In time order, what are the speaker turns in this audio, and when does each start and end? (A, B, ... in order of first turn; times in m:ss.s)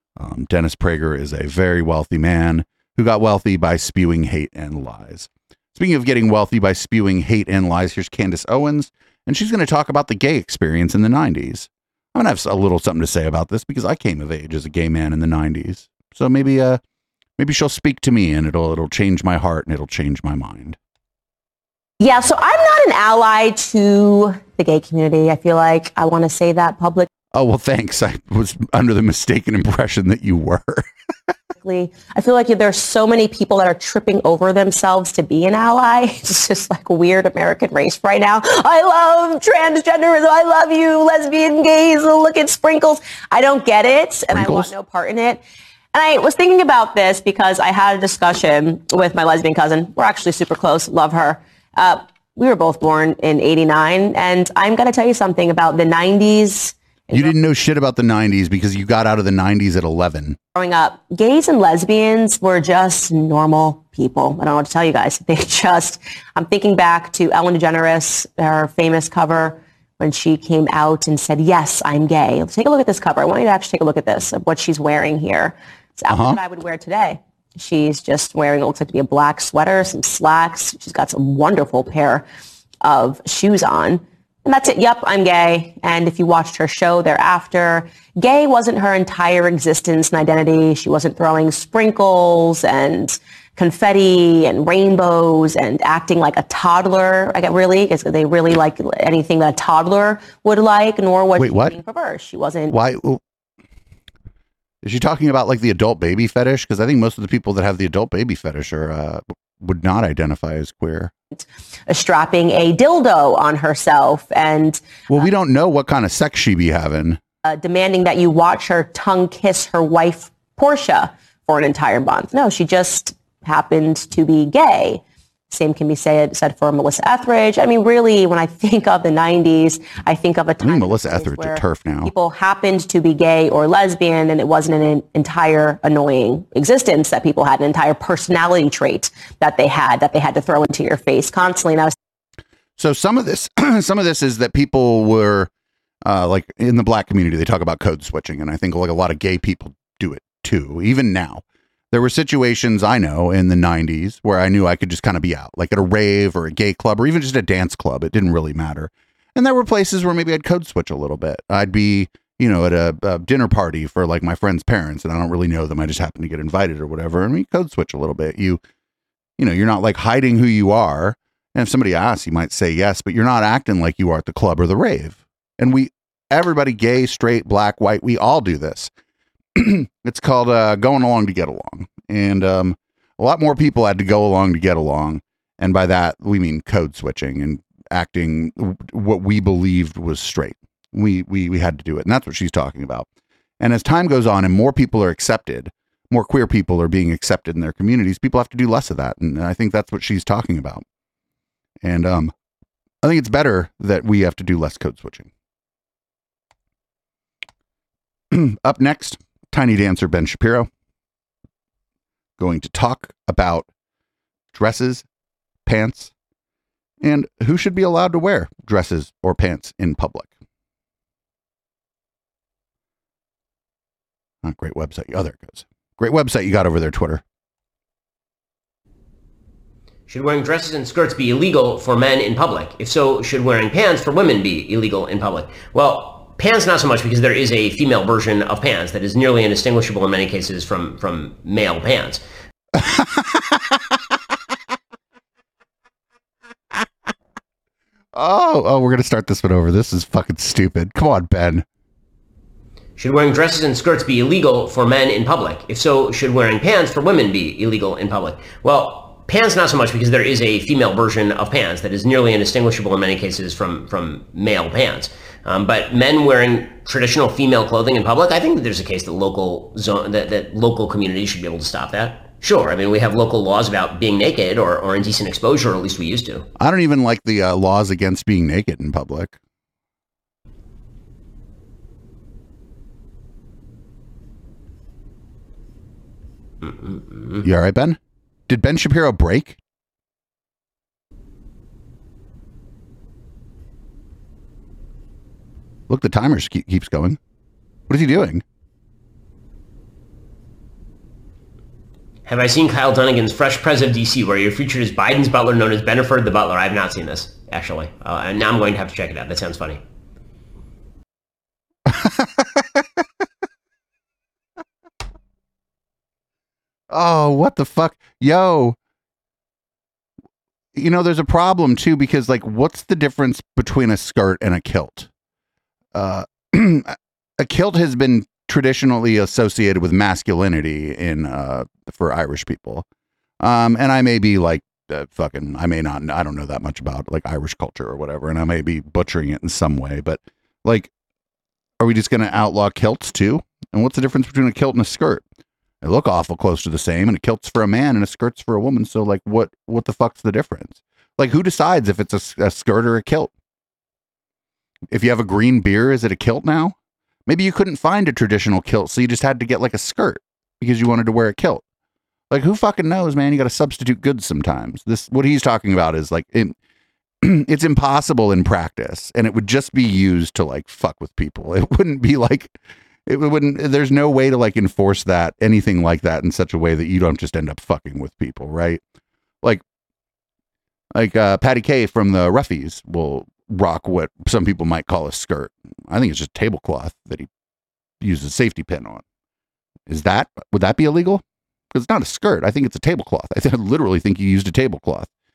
0:00.2-0:16.8 A
0:17.4-0:20.8 A
0:22.0-0:27.1 B
0:27.3-0:30.8 A
0:31.6-0:45.4 B
0:44.3-0:44.7 A
0:45.9-0:57.3 B
0:57.1-1:00.4 A
1:00.5-1:22.2 B
1:16.1-1:16.4 A
1:22.8-1:42.7 B
1:41.4-1:41.7 A
1:42.7-1:43.2 A
1:44.8-1:51.1 A
1:51.9-1:55.3 B
1:55.1-1:57.2 A
1:57.4-2:21.9 B
2:10.6-2:12.1 A
2:22.8-2:25.5 A
2:26.0-2:48.6 A
2:49.4-2:58.9 A
2:59.6-3:13.1 A
3:13.6-3:20.8 A
3:21.8-3:22.3 A
3:23.0-3:25.3 A
3:28.3-3:30.7 A
3:32.4-3:33.7 A
3:34.5-3:35.0 A
3:35.6-3:36.1 A
3:37.0-3:40.3 A
3:44.4-3:47.2 A
3:50.1-4:02.2 C
4:02.7-4:03.8 A
4:08.1-4:11.6 A
4:13.0-4:36.4 C
4:36.6-4:39.4 A
4:47.4-4:48.0 A
4:48.5-4:49.6 A
4:55.9-4:57.2 A
4:57.9-4:58.4 A
5:02.2-5:09.8 C
5:11.9-5:12.8 A
5:16.9-5:18.8 A
5:20.7-5:25.1 A
5:25.9-5:32.8 A
5:33.4-5:40.9 A
5:41.8-5:45.2 A
5:45.8-5:53.3 A
5:54.9-5:56.7 A
5:57.3-6:01.6 A
6:02.3-6:06.6 A
6:07.2-6:18.8 A
6:20.9-6:27.3 A
6:28.0-6:29.0 A
6:29.9-6:35.1 A